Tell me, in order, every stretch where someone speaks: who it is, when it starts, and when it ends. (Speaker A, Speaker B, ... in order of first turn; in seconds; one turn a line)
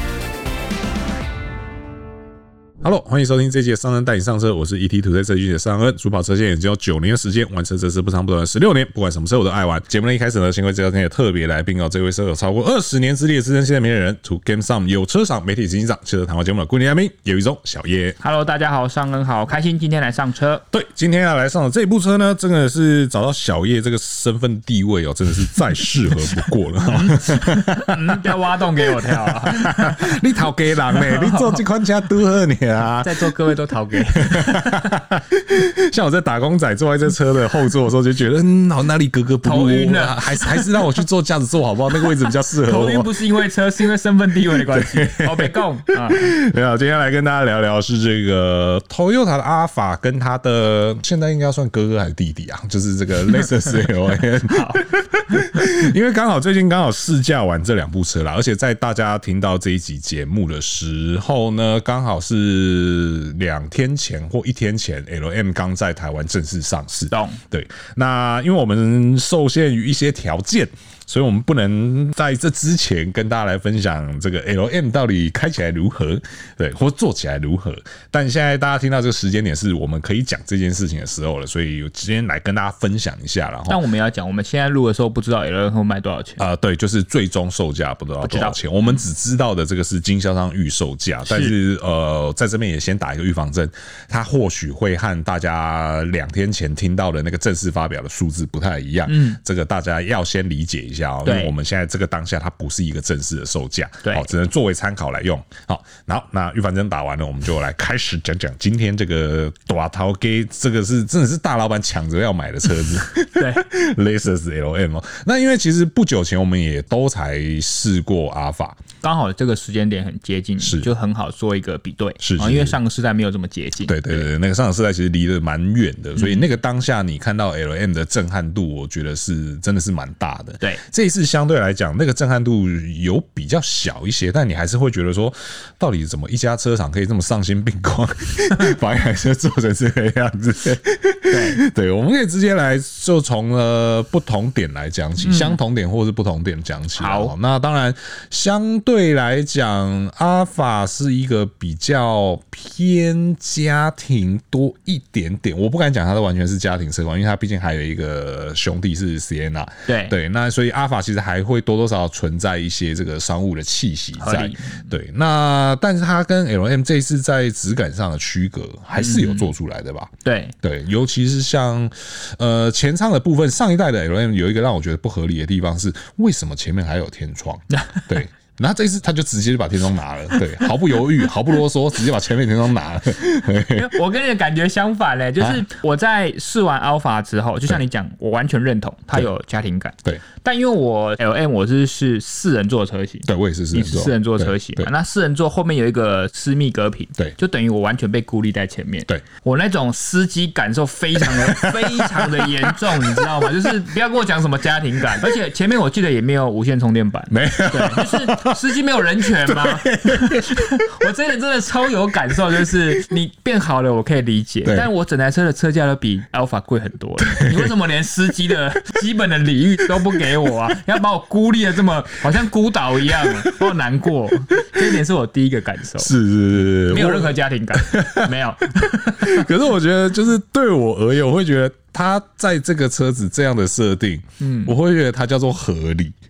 Speaker A: 2.8-18.2
Speaker B: 18.2-20.6
Speaker A: 20.7-33.3
Speaker B: 26.8-31.6
Speaker B: 33.0-35.0
Speaker A: 34.1-43.1
Speaker B: 39.4-41.0
Speaker B: 42.0-46.3
Speaker A: 44.5-83.8
Speaker B: 54.5-55.8
Speaker B: 67.1-67.4
Speaker B: 83.7-86.4
Speaker A: 86.4-118.8
Speaker B: 88.2-89.0
Speaker B: 91.3-91.5
Speaker B: 99.1-99.4
Speaker B: 101.2-101.5
Speaker B: 104.0-104.3
Speaker B: 113.4-113.6
Speaker B: 119.0-124.3
Speaker A: 120.6-120.9
Speaker A: 122.2-122.8
Speaker A: 123.8-183.9
Speaker B: 126.2-126.5
Speaker B: 141.3-141.6
Speaker B: 145.2-145.6
Speaker B: 147.0-147.3
Speaker B: 159.9-160.2
Speaker B: 164.2-164.9
Speaker B: 169.0-169.5
Speaker B: 170.2-170.5
Speaker B: 183.7-226.2
Speaker A: 193.3-194.9
Speaker A: 201.2-203.5
Speaker A: 207.3-210.9
Speaker A: 217.2-217.7
Speaker A: 223.0-223.6
Speaker A: 226.0-228.3
Speaker B: 226.8-229.5
Speaker A: 228.9-236.1
Speaker B: 234.4-234.7